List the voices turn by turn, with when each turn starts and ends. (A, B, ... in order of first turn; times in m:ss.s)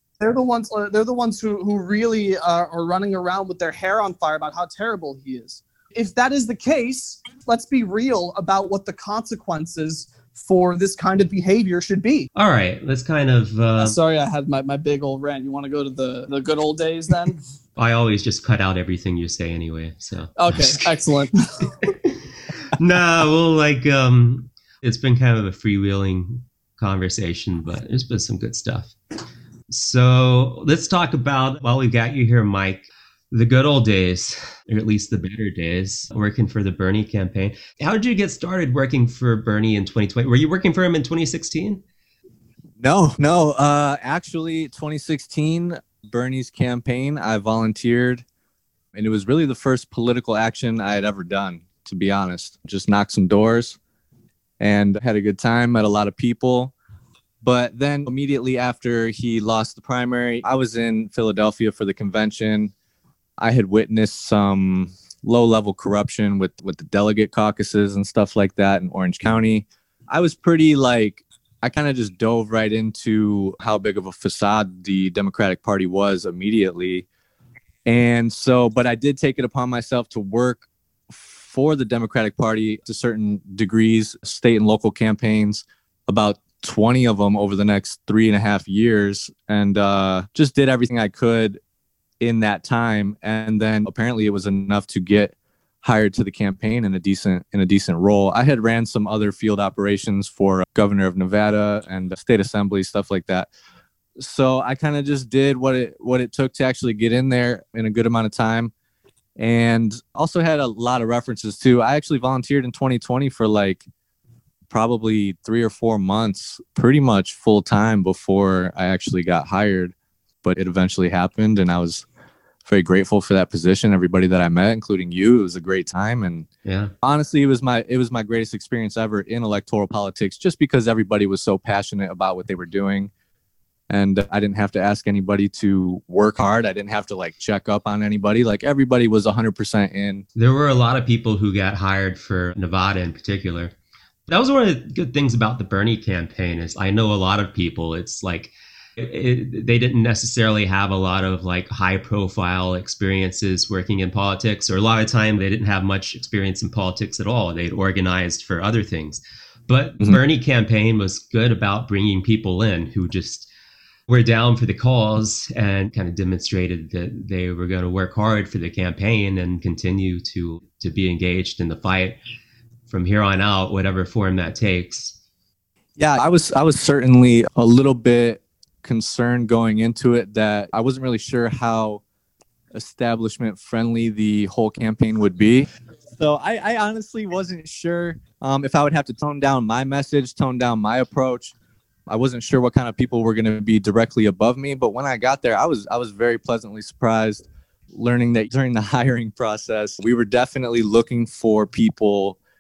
0:00.2-0:12.3 A
0:12.4-0:14.0 B
0:13.8-0:17.4 A
0:17.8-0:20.9 B
0:20.4-0:21.9 A
0:22.6-0:29.0 B
0:29.7-0:41.8 B
0:42.8-0:48.2 C
0:48.9-0:53.8 C
0:54.6-0:56.7 C
0:57.4-1:02.7 C
1:03.4-1:17.1 C
1:17.9-1:31.6 C
1:32.2-1:43.5 C
1:44.2-1:48.7 C
1:49.4-1:53.9 C
1:54.7-2:02.1 C
2:02.6-2:06.5 C
2:06.6-2:06.9 B
2:07.0-2:13.1 C
2:13.9-2:20.2 C
2:20.4-2:23.7 B
2:24.3-2:43.5 B
2:44.1-2:52.2 B
2:52.9-2:55.2 B
2:56.0-3:02.0 C
3:02.7-3:11.5 C
3:12.1-3:22.4 C